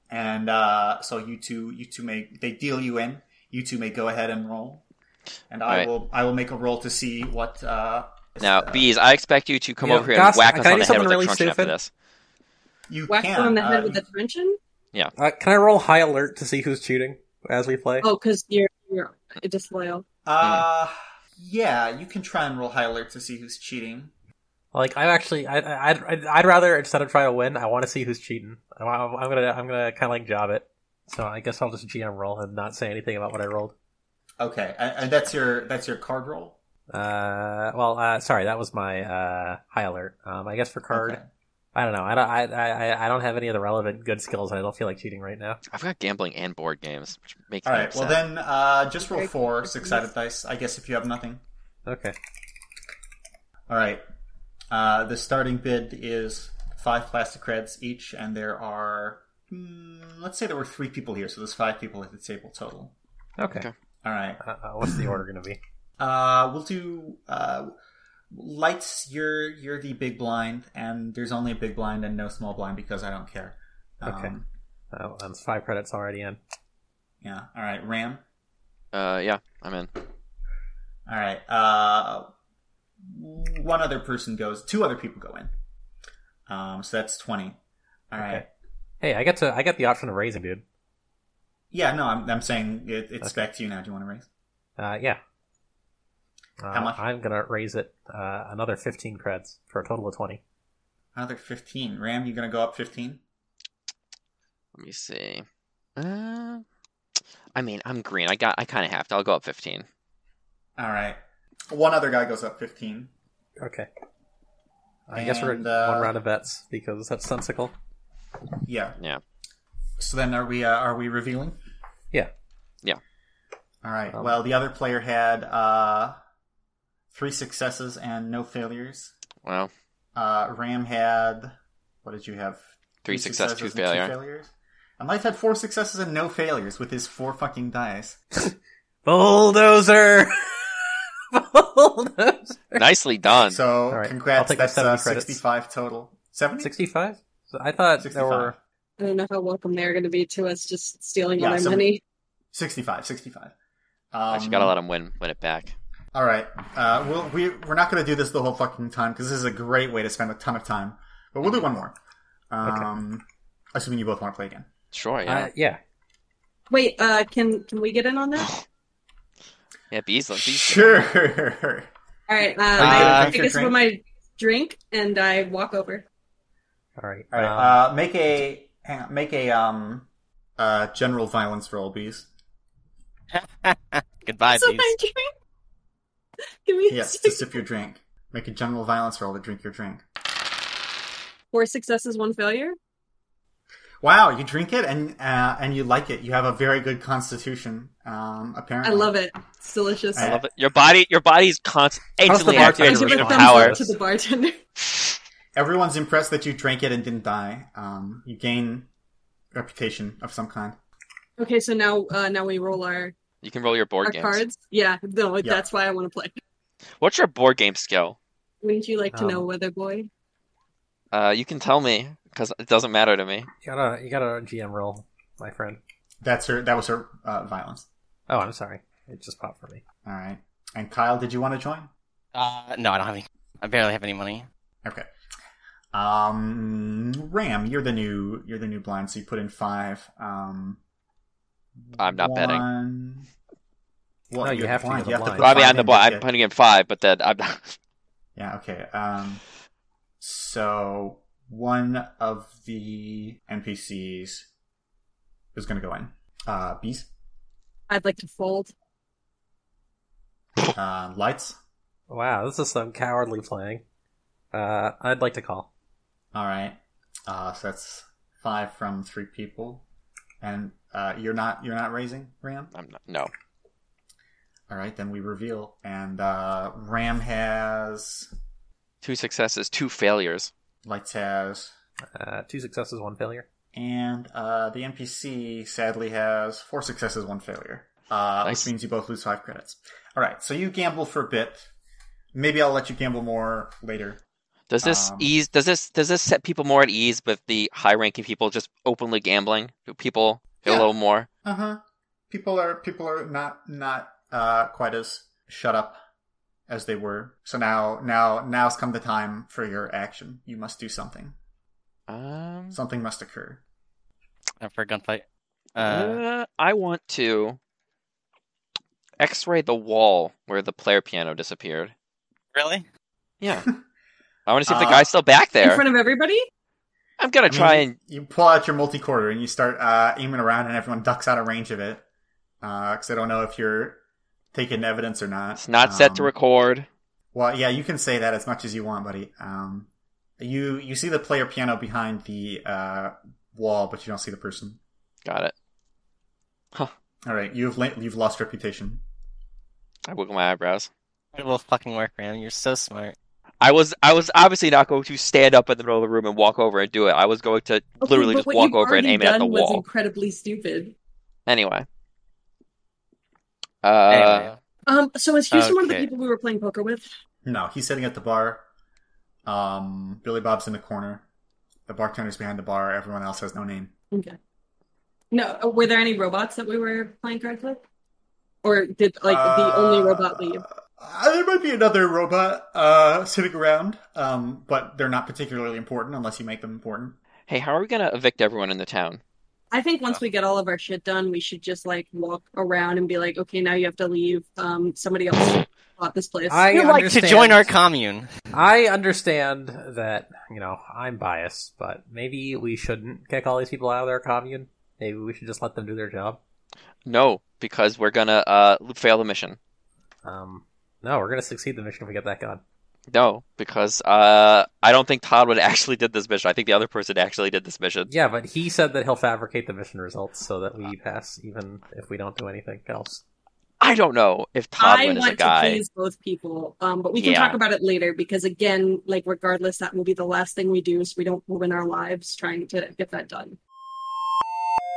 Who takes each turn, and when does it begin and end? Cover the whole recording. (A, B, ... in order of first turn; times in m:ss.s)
0:00.1-0:04.8 A
0:05.5-0:08.9 A
0:08.4-0:11.9 B
0:09.8-0:11.7 C
0:12.9-0:14.0 A
0:13.1-0:14.6 D
0:15.2-0:18.1 C
0:18.0-0:20.0 D
0:20.2-0:24.1 A
0:24.7-0:33.7 C
0:34.4-0:36.6 A
0:36.9-0:41.2 C
0:40.9-0:41.3 A
0:41.7-0:45.6 C
0:45.7-0:48.2 B
0:47.6-0:51.4 A
0:49.0-0:50.0 D
0:51.9-0:52.2 C
0:53.7-0:54.0 A
0:54.7-1:02.9 A
1:03.4-1:03.7 C
1:04.0-1:05.1 A
1:04.4-1:05.6 C
1:06.0-1:07.7 A
1:08.3-1:14.4 A
1:14.0-1:14.4 C
1:14.9-1:16.4 C
1:17.2-1:18.2 A
1:18.9-1:19.9 B
1:21.1-1:22.3 A
1:23.0-1:25.5 A
1:26.5-1:27.6 A
1:28.1-1:28.5 A
1:28.2-1:28.4 C
1:29.0-1:30.6 C
1:31.7-1:34.3 A
1:34.8-1:35.2 C
1:36.6-1:40.4 C
1:36.7-1:37.0 A
1:41.1-1:43.2 A
1:44.7-1:45.4 B
1:46.0-1:46.6 B
1:47.6-1:49.8 B
1:50.8-1:51.2 A
1:51.7-1:53.1 A
1:53.6-1:53.9 C
1:55.1-1:57.7 C
1:55.1-1:56.1 A
1:58.7-1:59.0 A
2:00.0-2:01.6 A
2:03.8-2:06.2 A
2:07.1-2:09.1 A
2:09.4-2:09.7 B
2:10.1-2:18.2 A
2:13.0-2:14.1 B
2:19.0-2:22.8 C
2:22.7-2:23.6 B
2:23.3-2:26.7 A
2:23.9-2:25.4 C
2:26.6-2:28.6 C
2:28.0-2:28.6 A
2:29.0-2:32.0 D
2:31.4-2:31.9 A
2:32.5-2:33.5 A
2:34.1-2:34.7 A
2:34.3-2:35.7 B
2:36.1-2:42.0 A
2:42.5-2:44.7 A
2:44.9-2:45.5 B
2:45.3-2:45.8 C
2:46.7-2:48.5 D
2:49.9-2:51.0 B
2:50.4-2:51.9 A
2:52.3-2:56.0 D
2:52.8-2:53.8 A
2:52.8-2:53.4 E
2:57.0-2:57.8 C
2:57.3-3:02.3 A
3:03.3-3:04.9 E
3:04.5-3:05.3 D
3:06.6-3:07.6 D
3:06.9-3:10.0 A
3:11.5-3:12.8 D
3:14.0-3:19.1 A
3:18.8-3:20.3 D
3:20.1-3:20.4 A
3:20.2-3:23.9 B
3:22.2-3:23.9 C
3:22.5-3:24.6 D
3:25.6-3:28.9 A
3:29.5-3:30.8 A
3:31.4-3:33.1 D
3:33.4-3:34.4 B
3:34.0-3:36.4 D
3:37.0-3:38.2 B
3:38.6-3:40.1 D
3:39.1-3:39.4 C
3:41.1-3:43.5 B
3:43.6-3:45.8 C
3:46.2-3:47.9 A
3:48.3-3:49.8 C
3:50.0-3:51.9 A
3:52.3-3:54.5 E
3:55.9-4:00.8 A
4:01.9-4:03.3 A
4:02.0-4:02.6 B
4:04.3-4:06.3 A
4:04.4-4:05.5 C
4:05.4-4:07.8 B
4:08.4-4:09.4 A
4:10.2-4:14.5 A
4:15.5-4:17.1 A
4:17.9-4:18.7 D
4:20.7-4:21.6 A
4:22.1-4:23.8 C
4:24.5-4:25.7 C
4:26.3-4:26.8 A
4:27.3-4:29.8 A
4:30.4-4:32.7 A
4:32.7-4:33.3 B
4:34.7-4:38.3 A
4:39.0-4:40.5 B
4:40.8-4:41.7 A
4:42.1-4:43.4 C
4:43.7-4:51.7 A
4:52.3-4:54.2 A
4:54.7-5:01.3 B
4:54.8-4:55.3 A
5:00.7-5:00.9 A
5:01.4-5:06.0 A
5:06.7-5:11.4 A
5:12.1-5:12.8 B
5:12.7-5:13.6 A
5:14.6-5:15.2 E
5:15.8-5:16.2 E
5:15.8-5:17.6 B
5:19.2-5:21.9 B
5:22.5-5:22.8 E
5:23.4-5:23.7 B
5:24.5-5:25.8 B
5:24.7-5:25.1 A
5:25.6-5:26.5 D
5:27.2-5:28.0 B
5:27.5-5:32.0 A
5:32.6-5:34.0 A
5:34.5-5:36.3 A
5:35.6-5:36.9 B
5:37.3-5:39.9 A
5:40.4-5:44.8 A
5:45.2-5:45.5 B
5:47.2-5:49.0 A
5:50.0-5:50.9 B
5:51.3-5:53.2 E
5:53.6-5:59.8 B
5:58.0-6:00.9 D
6:01.5-6:01.9 B
6:03.8-6:04.5 B
6:04.1-6:04.6 E
6:04.9-6:07.1 D
6:05.5-6:06.1 E
6:07.4-6:08.6 A
6:09.4-6:11.2 A
6:11.9-6:13.9 A
6:14.1-6:14.4 D
6:15.3-6:17.8 D
6:18.6-6:20.6 D
6:19.2-6:27.2 A
6:27.5-6:29.2 B
6:29.7-6:36.7 D
6:36.5-6:37.7 C
6:36.7-6:38.3 E
6:38.5-6:46.4 C
6:47.0-6:49.6 B
6:50.2-6:52.6 C
6:53.1-6:58.1 B
6:58.1-7:03.2 C
7:03.8-7:05.8 B
7:04.8-7:13.6 D
7:07.1-7:07.6 B